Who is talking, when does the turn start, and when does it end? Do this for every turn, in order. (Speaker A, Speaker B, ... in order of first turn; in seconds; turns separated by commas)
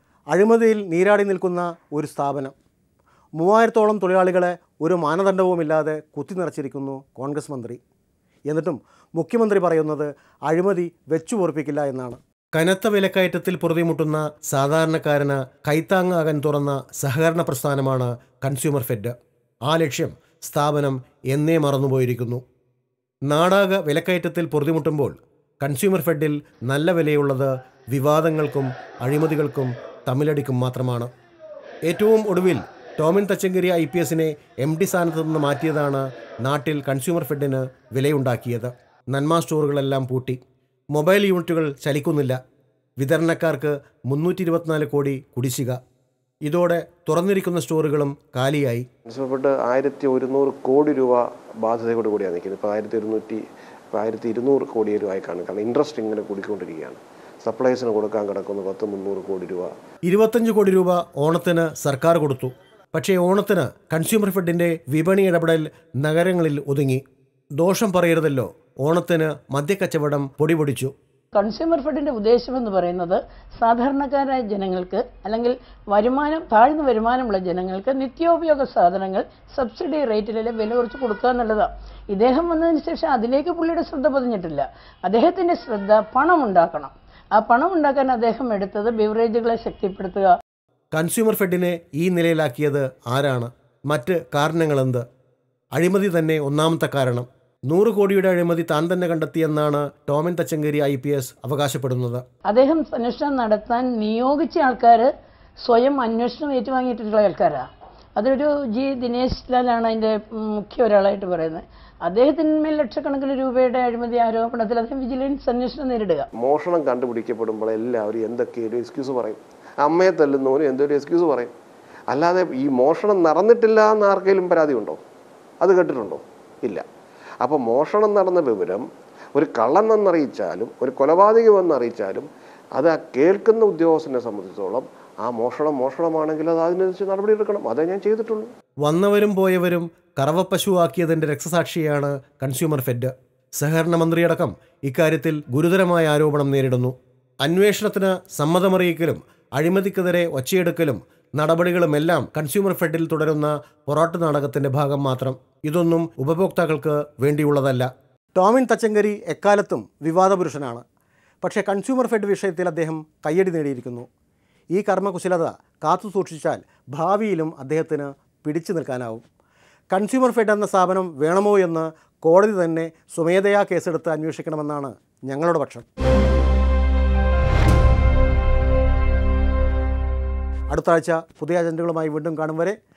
Speaker A: 0.3-2.5, Speaker A: 3.4-7.8, Speaker A: 8.5-19.1, Speaker A: 19.7-22.4, Speaker A: 23.3-31.1, Speaker A: 31.9-40.4, Speaker A: 40.9-42.4, Speaker A: 43.0-45.8, Speaker A: 46.4-48.9, Speaker B: 49.1-59.7, Speaker A: 60.1-67.0, Speaker A: 67.6-70.9, Speaker C: 71.3-90.3, Speaker A: 90.9-95.0, Speaker A: 95.8-102.2, Speaker C: 102.5-105.1, Speaker C: 105.6-116.3, Speaker B: 116.3-121.5, Speaker B: 122.1-125.0, Speaker B: 125.6-126.8, Speaker B: 127.4-138.5, Speaker A: 138.8-160.8, Speaker A: 161.4-164.1, Speaker A: 164.7-169.2, Speaker A: 169.9-175.9, Speaker A: 180.7-182.8